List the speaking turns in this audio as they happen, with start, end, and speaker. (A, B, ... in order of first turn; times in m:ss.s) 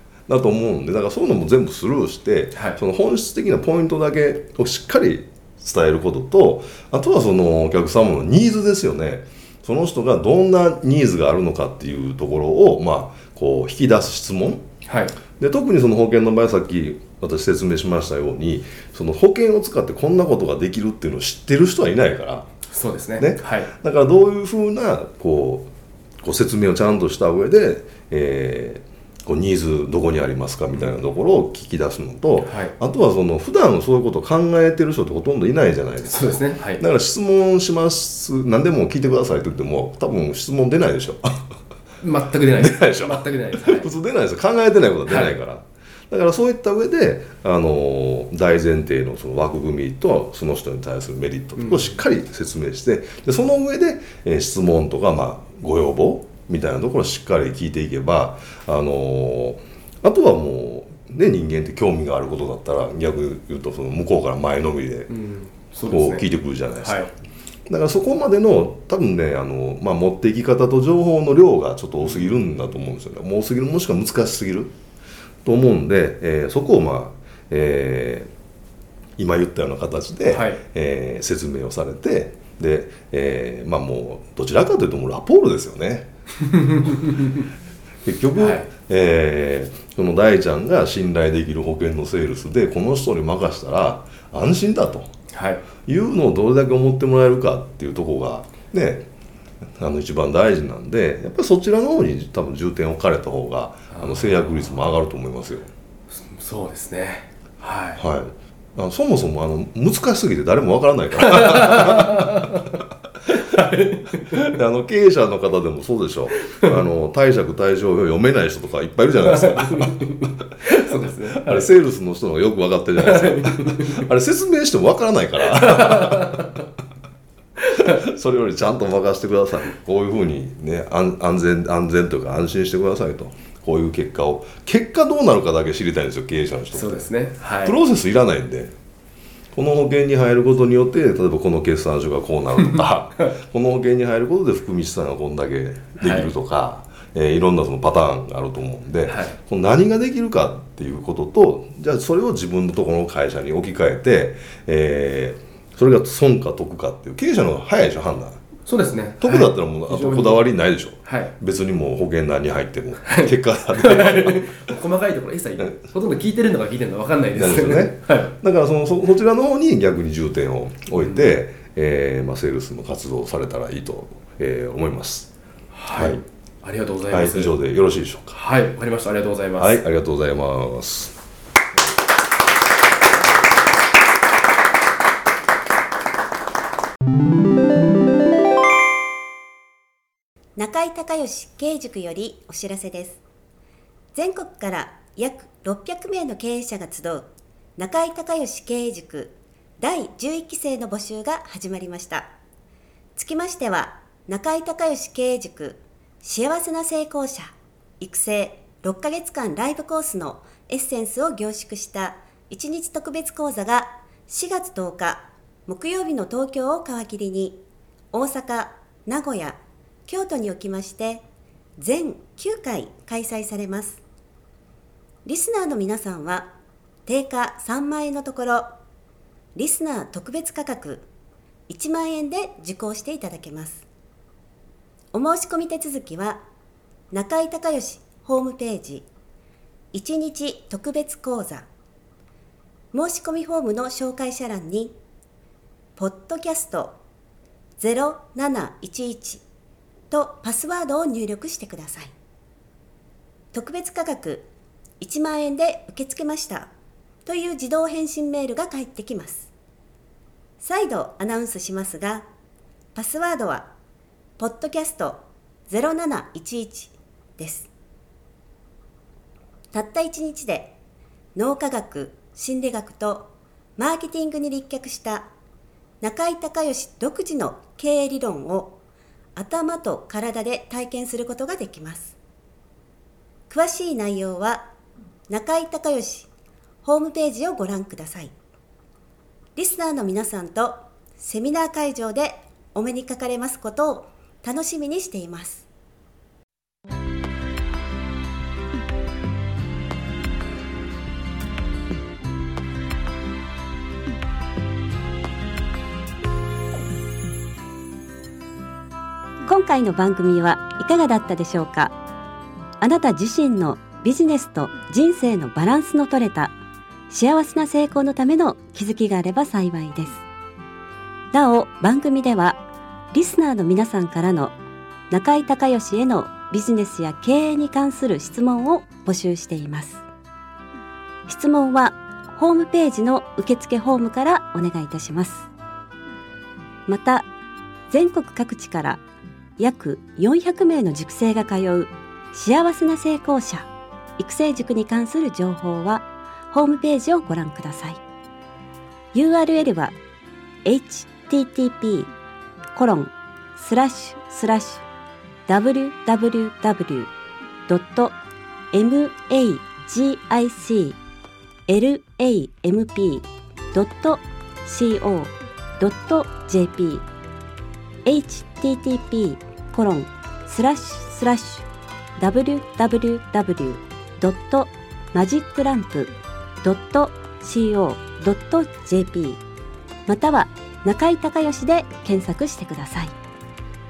0:00.3-0:14.6 A
0:02.5-0:02.8 B
0:14.8-0:15.2 B
0:15.4-0:22.5 A
0:22.7-0:23.7 B
0:23.2-0:25.7 A
0:26.2-0:41.4 A
0:32.4-0:32.7 B
0:36.0-0:36.8 B
0:42.0-0:43.9 B
0:42.6-1:05.1 A
0:45.1-0:45.3 B
0:51.6-0:52.0 B
1:05.1-1:06.2 B
1:05.9-1:07.1 A
1:06.8-1:07.1 B
1:07.7-1:14.7 A
1:12.1-1:12.4 B
1:15.4-1:18.3 A
1:19.2-1:26.1 A
1:20.3-1:20.6 B
1:28.0-1:35.1 A
1:28.4-1:28.7 B
1:35.3-1:35.6 B
1:35.8-1:39.1 A
1:39.8-1:45.7 A
1:43.9-1:44.6 B
1:46.1-1:48.0 B
1:48.0-1:52.4 A
1:51.3-1:52.6 B
1:53.4-1:54.4 B
1:54.2-2:00.3 A
1:59.4-2:01.7 B
2:01.4-2:06.6 A
2:03.0-2:04.0 B
2:05.6-2:06.4 B
2:07.7-2:18.7 A
2:16.7-2:17.8 B
2:19.5-2:38.4 A
2:26.0-2:26.3 B
2:29.1-2:29.4 B
2:38.6-2:40.4 B
2:39.2-2:44.6 A
2:41.0-2:41.3 B
2:43.0-2:48.3 B
2:47.4-2:55.3 A
2:51.0-2:51.3 B
2:55.7-2:57.6 B
2:55.9-2:56.2 A
2:57.1-2:58.4 A
2:58.3-2:59.8 B
2:59.6-3:01.1 A
3:10.6-3:13.2 C
3:14.1-3:22.3 C
3:23.2-3:41.2 C
3:41.8-3:44.0 C
3:45.2-3:46.5 C
3:47.0-3:48.7 C
3:49.5-3:51.1 C
3:51.7-3:53.8 C
3:55.1-3:56.4 C
3:57.1-3:59.1 C
3:59.9-4:01.7 C
4:02.9-4:05.0 C
4:06.0-4:07.0 C
4:07.8-4:09.4 C
4:10.1-4:12.1 C
4:13.5-4:14.5 C
4:15.0-4:16.7 C
4:17.2-4:19.5 C
4:20.6-4:22.3 C
4:22.9-4:23.7 C
4:24.4-4:27.7 C
4:29.7-4:30.8 C
4:31.3-4:35.3 C
4:36.0-4:38.8 C
4:39.4-4:42.2 C
4:43.5-4:44.7 C
4:45.3-4:46.3 C
4:46.8-4:48.3 C
4:49.6-4:55.6 C
5:09.4-5:11.9 C
5:12.8-5:16.5 C
5:17.1-5:20.2 C
5:21.3-5:24.6 C
5:25.1-5:30.0 C
5:31.3-5:35.5 C
5:36.9-5:37.3 C
5:37.9-5:39.0 C
5:39.6-5:48.0 C
5:49.1-5:50.0 C
5:50.6-5:52.1 C
5:52.7-5:54.8 C
5:55.5-5:57.1 C
5:57.7-5:58.2 C
5:58.7-6:01.0 C
6:01.7-6:07.0 C
6:08.0-6:11.7 C
6:12.2-6:19.4 C
6:20.1-6:23.1 C